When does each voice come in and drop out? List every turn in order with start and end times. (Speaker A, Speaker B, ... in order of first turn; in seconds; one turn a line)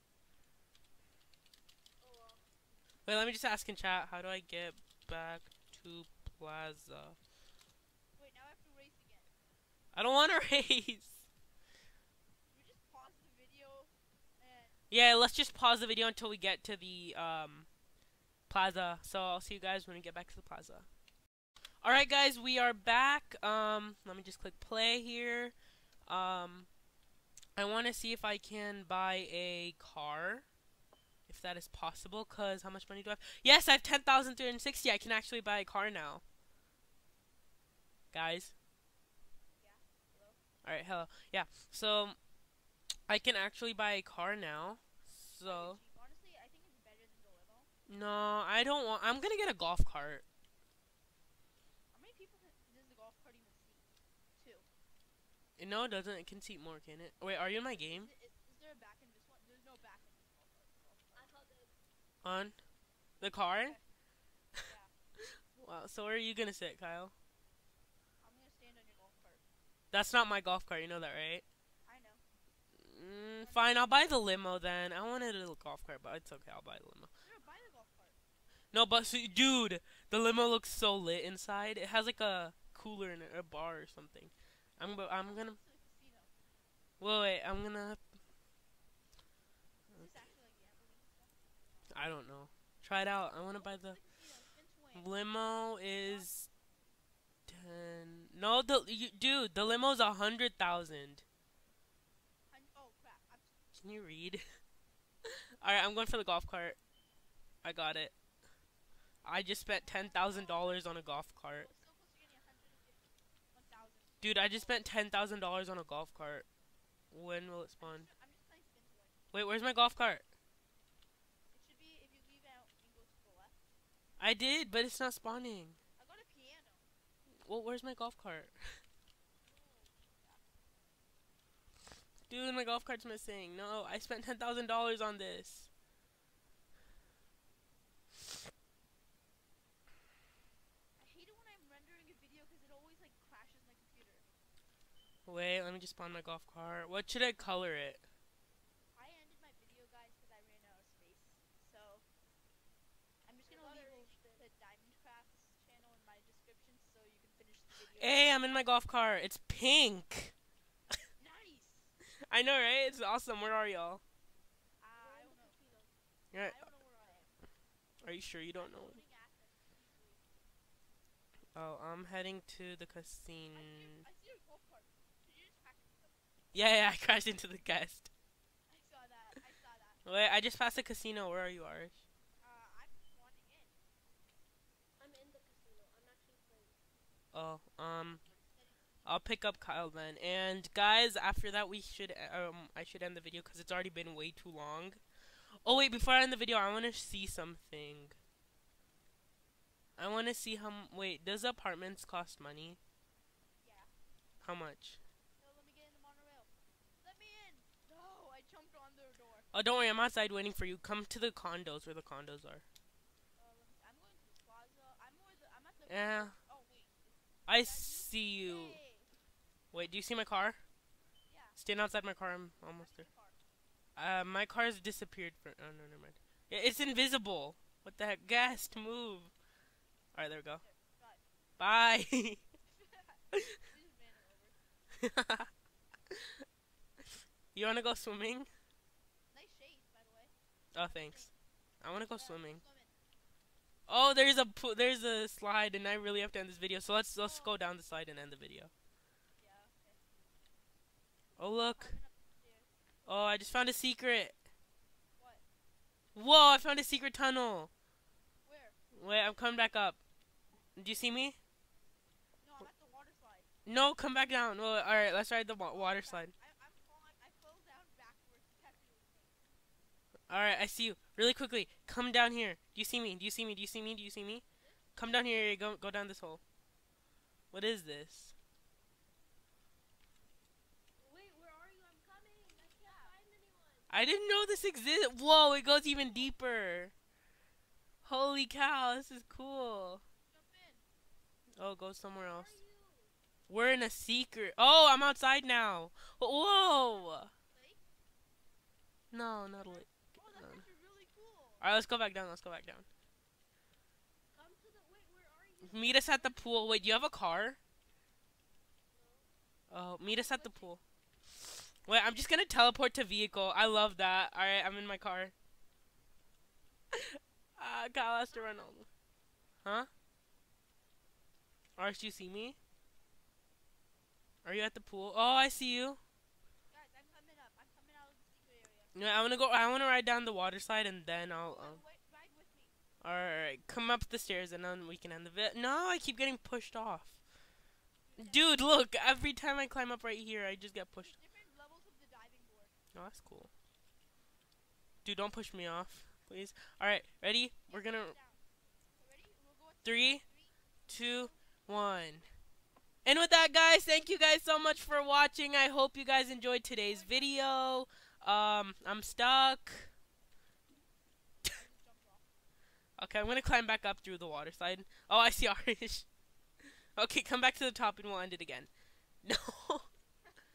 Speaker A: 2.0-2.5
Speaker B: 3.0-7.2
Speaker C: 8.2-9.3
Speaker B: 9.9-11.2
Speaker C: 12.5-14.8
Speaker B: 14.9-17.7
Speaker B: 18.5-20.9
Speaker B: 21.8-25.5
Speaker B: 26.1-26.7
Speaker B: 27.6-30.4
Speaker B: 31.3-36.2
Speaker B: 38.1-38.5
Speaker C: 39.5-40.4
Speaker B: 40.6-42.2
Speaker B: 43.1-45.8
Speaker C: 45.4-47.7
Speaker B: 47.9-50.2
Speaker C: 51.9-54.7
Speaker B: 55.6-58.1
Speaker C: 57.9-61.3
Speaker A: 61.1-61.8
Speaker B: 62.2-62.6
Speaker B: 63.2-63.8
Speaker C: 63.5-63.8
Speaker C: 64.6-64.9
Speaker B: 65.5-67.1
Speaker C: 68.2-69.4
Speaker B: 69.9-71.4
Speaker C: 71.8-72.2
Speaker B: 72.8-77.1
Speaker C: 73.4-74.1
Speaker C: 77.2-78.2
Speaker B: 78.7-85.6
Speaker C: 85.1-86.3
Speaker B: 87.0-88.0
Speaker C: 89.9-91.9
Speaker B: 91.9-94.0
Speaker C: 93.5-95.2
Speaker B: 94.9-96.5
Speaker C: 96.0-96.3
Speaker B: 97.5-101.2
Speaker C: 102.5-103.7
Speaker B: 103.7-104.4
Speaker B: 105.2-106.8
Speaker B: 107.6-108.1
Speaker B: 109.2-111.7
Speaker C: 109.7-110.9
Speaker C: 111.5-114.9
Speaker B: 114.2-116.5
Speaker B: 117.1-118.1
Speaker C: 117.8-119.2
Speaker B: 119.3-120.2
Speaker C: 121.5-123.6
Speaker B: 124.2-125.8
Speaker C: 126.0-126.9
Speaker B: 127.4-128.8
Speaker C: 129.4-130.4
Speaker B: 132.3-135.7
Speaker C: 141.0-144.3
Speaker B: 145.2-148.0
Speaker C: 148.9-152.0
Speaker C: 153.2-158.4
Speaker A: 153.4-154.4
Speaker B: 157.9-160.3
Speaker C: 161.2-162.0
Speaker B: 162.2-164.0
Speaker C: 164.8-165.6
Speaker A: 164.9-166.0
Speaker B: 166.3-166.6
Speaker C: 166.3-167.3
Speaker B: 168.0-169.0
Speaker C: 168.5-170.3
Speaker B: 171.5-174.0
Speaker C: 173.5-176.2
Speaker B: 176.5-178.1
Speaker C: 178.7-180.0
Speaker B: 180.0-182.0
Speaker C: 182.4-183.7
Speaker A: 185.0-186.8
Speaker B: 187.3-188.2
Speaker C: 188.5-188.8
Speaker B: 189.0-195.0
Speaker B: 195.6-198.2
Speaker B: 200.0-202.8
Speaker C: 203.6-203.9
Speaker B: 204.4-205.0
Speaker C: 205.4-206.5
Speaker C: 207.0-209.5
Speaker B: 209.5-212.6
Speaker C: 213.3-219.1
Speaker B: 215.9-216.3
Speaker B: 217.5-218.8
Speaker B: 219.7-220.6
Speaker C: 221.3-221.6
Speaker B: 221.6-223.1
Speaker C: 222.8-223.3
Speaker B: 223.9-229.3
Speaker B: 230.1-230.6
Speaker C: 230.6-231.2
Speaker B: 231.6-232.4
Speaker C: 232.7-234.6
Speaker B: 235.0-235.5
Speaker B: 236.1-236.4
Speaker B: 237.5-238.5
Speaker C: 239.3-241.3
Speaker B: 240.7-241.3
Speaker B: 241.8-242.6
Speaker C: 242.1-242.9
Speaker B: 243.9-248.7
Speaker C: 247.2-247.6
Speaker C: 249.4-250.0
Speaker B: 251.4-252.0
Speaker C: 251.8-252.7
Speaker B: 253.1-254.3
Speaker C: 255.2-255.4
Speaker B: 256.1-257.7
Speaker C: 258.4-258.8
Speaker B: 258.9-260.0
Speaker B: 260.8-261.4
Speaker C: 262.4-263.5
Speaker B: 263.6-266.3
Speaker C: 265.7-269.4
Speaker B: 270.3-274.4
Speaker B: 274.9-276.4
Speaker B: 277.5-278.3
Speaker A: 281.0-284.0
Speaker C: 282.4-283.1
Speaker B: 283.9-286.9
Speaker B: 288.0-290.0
Speaker C: 290.3-290.8
Speaker B: 291.6-292.6
Speaker A: 292.1-293.1
Speaker B: 293.5-297.3
Speaker C: 296.9-297.8
Speaker B: 299.1-300.6
Speaker C: 299.6-301.6
Speaker B: 301.6-302.9
Speaker A: 304.3-306.4
Speaker B: 305.6-307.6
Speaker A: 308.9-309.3
Speaker B: 309.7-310.8
Speaker C: 310.0-310.7
Speaker B: 311.7-315.3
Speaker B: 316.9-318.9
Speaker C: 317.9-318.8
Speaker B: 319.6-319.9
Speaker B: 321.8-322.6
Speaker B: 324.4-326.0
Speaker C: 326.7-328.9
Speaker B: 328.9-331.8
Speaker C: 331.4-332.7
Speaker B: 333.0-337.1
Speaker C: 338.1-338.6
Speaker B: 338.2-341.2
Speaker C: 341.0-342.7
Speaker B: 342.9-343.5
Speaker B: 345.0-348.1
Speaker C: 347.7-348.4
Speaker C: 349.0-351.4
Speaker B: 349.8-350.2
Speaker B: 350.9-352.3
Speaker B: 353.0-359.9
Speaker C: 356.8-357.4
Speaker C: 361.5-362.2
Speaker B: 363.0-366.1
Speaker B: 366.9-368.7
Speaker B: 369.2-369.9